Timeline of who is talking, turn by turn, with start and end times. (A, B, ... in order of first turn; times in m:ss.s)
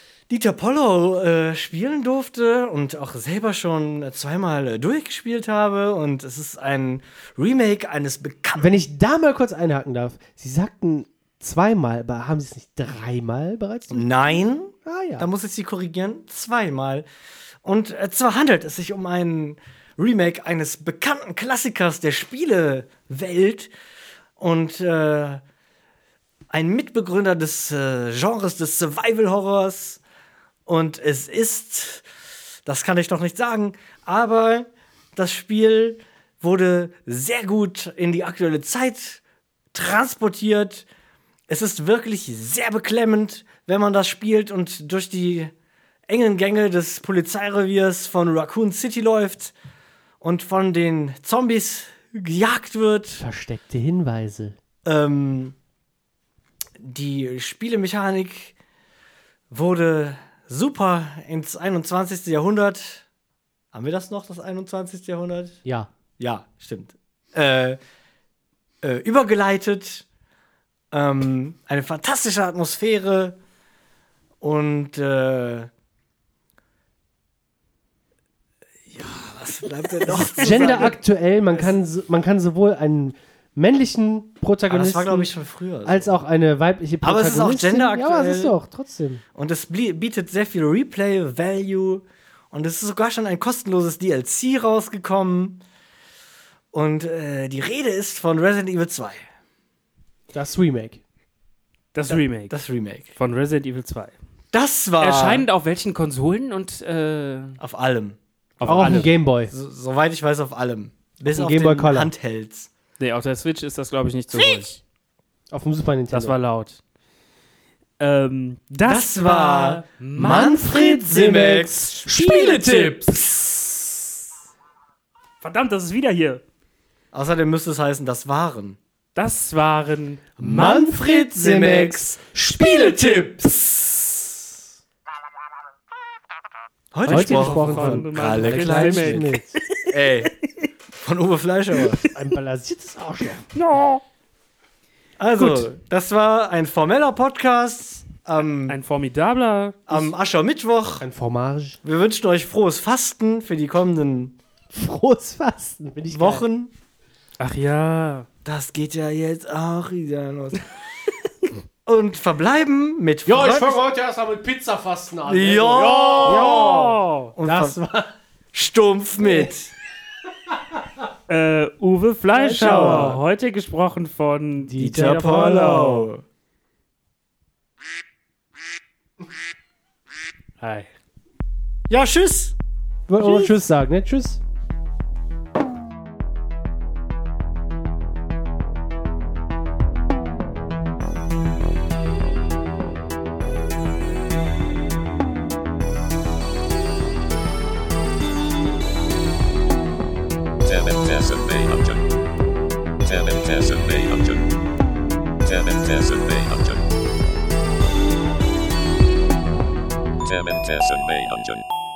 0:00.3-0:08.7 A
0:08.6-0:15.3 B
0:13.9-0:17.1 A
0:17.6-0:23.7 A
0:24.4-0:25.4 A
0:26.5-0:30.0 A
0:30.7-0:32.0 A
0:32.7-0:39.2 A
0:39.7-0:40.9 A
0:41.5-0:45.5 A
0:46.1-0:49.5 A
0:50.2-0:53.2 A
0:53.2-0:54.6 B
0:54.8-0:55.6 A
0:56.8-0:58.5 A
0:59.5-1:03.0 A
1:03.7-1:05.6 A
1:06.2-1:07.8 A
1:08.8-1:10.0 A
1:10.9-1:13.4 A
1:14.4-1:15.7 A
1:18.9-1:21.7 A
1:20.1-1:20.8 C
1:20.1-1:25.3 B
1:24.7-1:26.1 A
1:25.8-1:29.2 B
1:27.0-1:28.6 A
1:29.4-1:35.6 A
1:36.7-1:39.2 A
1:40.3-1:41.0 B
1:41.9-1:42.6 C
1:42.1-1:43.2 A
1:43.2-1:44.2 C
1:44.5-1:45.4 A
1:45.0-1:47.6 C
1:47.6-1:52.7 A
1:48.6-1:49.1 C
1:48.7-1:49.5 B
1:51.3-1:52.1 B
1:53.0-1:54.8 C
1:55.5-1:56.4 B
1:56.1-1:56.8 C
1:58.0-2:00.6 C
1:58.9-2:03.6 A
2:00.2-2:03.3 B
2:05.4-2:06.4 C
2:07.1-2:08.8 A
2:09.2-2:10.4 C
2:10.4-2:12.0 A
2:10.4-2:14.0 B
2:16.9-2:19.3 A
2:17.1-2:19.9 C
2:17.1-2:19.6 B
2:19.8-2:20.3 A
2:21.0-2:22.0 A
2:22.1-2:23.4 B
2:23.5-2:24.0 C
2:25.2-2:28.8 A
2:28.7-2:30.1 C
2:29.9-2:31.1 A
2:31.0-2:31.8 B
2:31.8-2:34.4 A
2:34.7-2:36.5 B
2:36.1-2:36.7 A
2:37.4-2:38.3 C
2:38.4-2:40.8 A
2:41.9-2:43.8 A
2:43.3-2:48.1 B
2:45.3-2:47.8 A
2:46.2-2:47.3 C
2:48.5-2:49.7 A
2:49.2-2:49.5 B
2:51.3-2:56.1 C
2:52.3-2:53.2 B
2:52.5-2:53.2 A
2:54.7-2:55.3 B
2:54.8-2:56.2 A
3:00.6-3:00.9 C
3:01.9-3:02.6 A
3:03.1-3:04.4 B
3:20.6-3:22.1 D
3:23.0-3:24.5 D
3:25.4-3:26.9 D
3:30.2-3:31.7 D